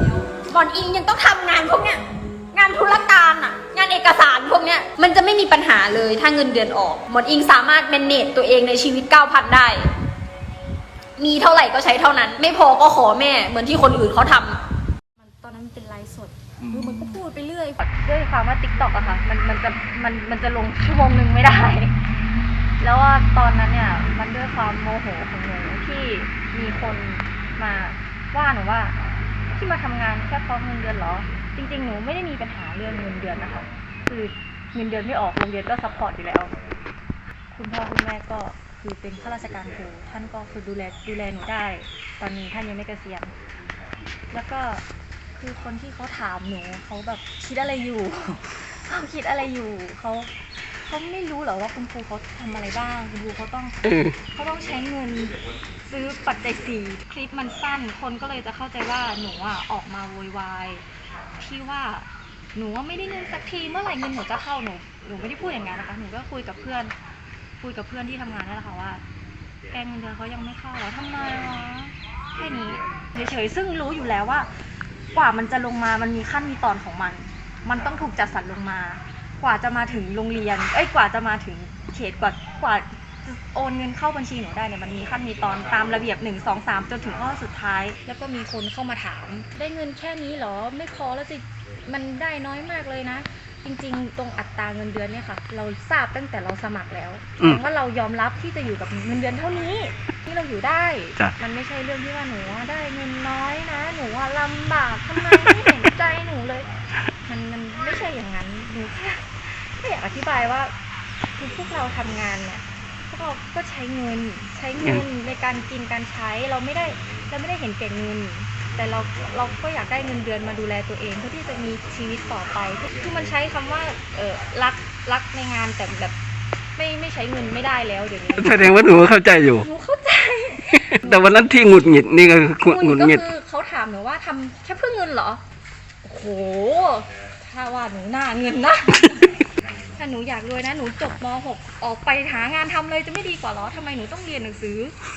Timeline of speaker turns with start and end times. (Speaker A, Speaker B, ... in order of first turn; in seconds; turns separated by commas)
Speaker A: 0.3-9.9, Speaker A: 11.2-14.6, Speaker B: 15.2-21.9, Speaker B: 22.8-29.0, Speaker B: 29.5-36.6, Speaker B: 37.5-43.3, Speaker B: 44.3-44.8, Speaker B: 45.4-53.8, Speaker C: 53.8-54.1, Speaker B: 54.3-60.8, Speaker B: 61.4-66.9, Speaker B: 67.6-69.0, Speaker B: 69.7-74.5, Speaker B: 75.1-106.7, Speaker B: 107.2-110.7, Speaker B: 111.3-126.2, Speaker C: 114.8-115.0, Speaker B: 126.8-131.4, Speaker C: 128.4-129.7, Speaker C: 130.9-133.2, Speaker B: 132.6-135.4, Speaker B: 136.0-144.9